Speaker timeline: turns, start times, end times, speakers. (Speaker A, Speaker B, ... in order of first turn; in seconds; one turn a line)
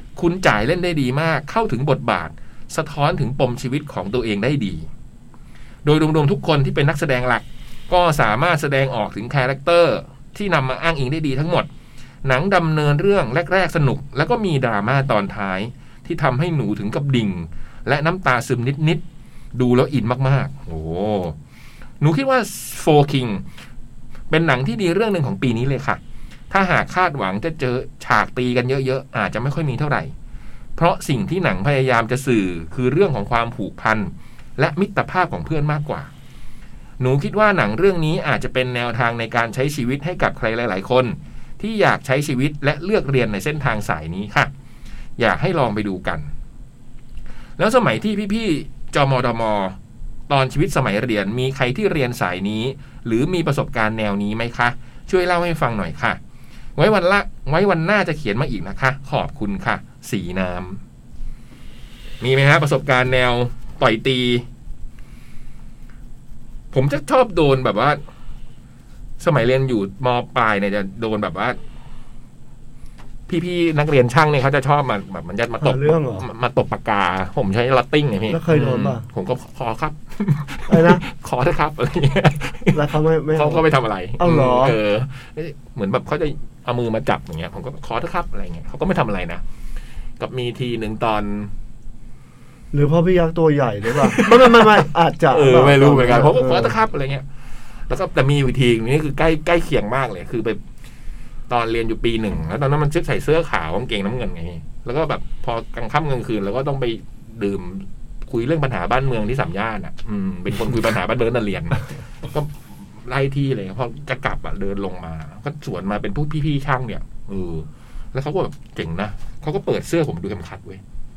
Speaker A: 0.2-4.9
Speaker A: 5.8-11.7
Speaker A: 12.2-19.0
Speaker A: 19.5-21.4
Speaker A: 22.0-23.4
Speaker A: 24.3-26.0
Speaker A: 26.5-30.1
Speaker A: 30.8-36.1
Speaker A: 37.0-44.5
Speaker A: 45.2-46.3
Speaker A: 47.6-49.8
Speaker A: 50.3-56.2
Speaker A: 56.8-60.8
Speaker A: 62.2-64.4
Speaker A: 66.7-68.0
Speaker A: 69.2-71.6
Speaker A: 73.3-82.8
Speaker B: 75.6-76.3
Speaker B: 78.3-79.1
Speaker B: 80.7-81.0
Speaker B: 82.7-83.7
Speaker A: 83.3-89.4
Speaker B: 84.2-84.8
Speaker A: 90.2-91.5
Speaker B: 92.7-96.8
Speaker A: 94.0-94.8
Speaker A: 95.3-97.2
Speaker A: 97.9-100.6
Speaker A: 101.5-120.8